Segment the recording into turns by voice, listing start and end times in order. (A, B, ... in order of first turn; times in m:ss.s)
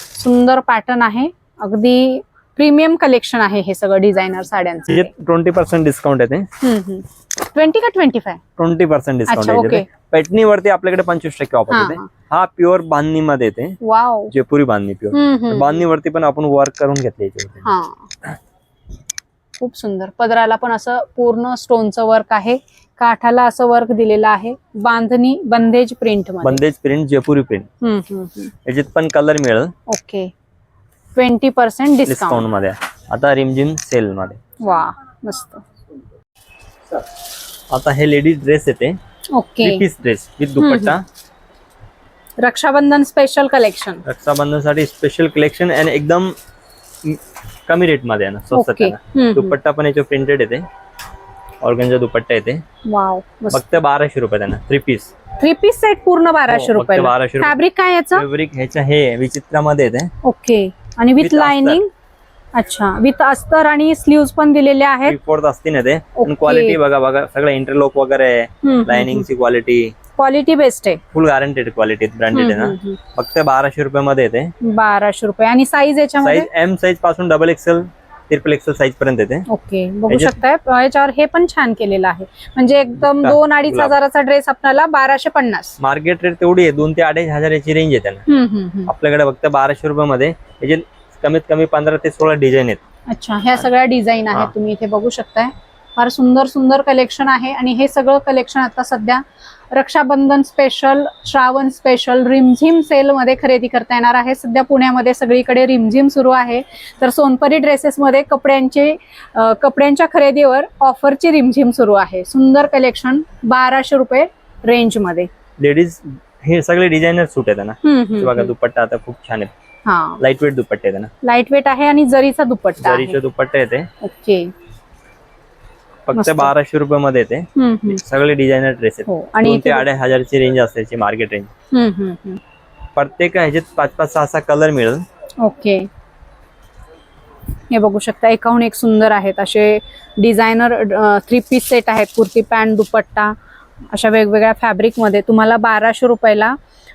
0:00.1-0:05.1 A
0:04.9-0:06.5 B
0:06.6-0:08.4 A
0:08.6-0:13.8 B
0:09.3-0:09.9 A
0:11.7-0:12.1 A
0:13.8-0:14.3 A
0:14.3-0:17.6 B
0:15.1-0:15.8 A
0:17.6-0:18.1 A
0:19.6-0:26.6 A
0:26.4-0:27.7 B
0:27.8-0:28.5 A
0:28.6-0:29.7 B
0:29.9-0:30.3 A
0:31.2-0:32.4 A
0:32.0-0:34.4 B
0:34.6-0:35.6 A
0:37.7-0:39.0 B
0:39.3-0:39.8 A
0:39.6-0:41.0 B
0:40.6-0:41.0 A
0:42.4-0:44.0 A
0:44.0-0:46.3 B
0:47.0-0:50.7 B
0:48.5-0:49.6 A
0:51.6-0:52.6 B
0:52.8-0:53.8 A
0:53.5-0:55.1 B
0:55.4-0:58.2 A
0:56.5-0:57.6 B
0:58.1-1:00.1 B
1:00.2-1:01.9 A
1:01.2-1:01.8 B
1:02.5-1:05.2 A
1:05.0-1:10.0 B
1:06.1-1:06.8 A
1:08.6-1:09.2 A
1:10.2-1:11.0 A
1:11.1-1:14.5 B
1:12.3-1:13.0 A
1:14.6-1:16.5 A
1:16.2-1:19.4 B
1:19.5-1:25.8 A
1:20.1-1:20.4 B
1:23.0-1:24.0 B
1:25.8-1:28.2 B
1:28.3-1:28.9 A
1:28.9-1:32.8 B
1:33.1-1:55.3 A
1:55.6-1:59.5 B
1:57.8-1:58.5 A
1:59.8-2:00.2 A
2:00.2-2:01.1 B
2:01.2-2:03.2 A
2:02.8-2:03.9 B
2:04.0-2:04.5 A
2:06.1-2:11.5 B
2:06.1-2:06.5 A
2:07.6-2:08.0 A
2:09.1-2:09.8 A
2:11.7-2:12.4 A
2:13.0-2:15.0 B
2:15.4-2:15.9 A
2:17.7-2:23.4 A
2:23.9-2:26.6 A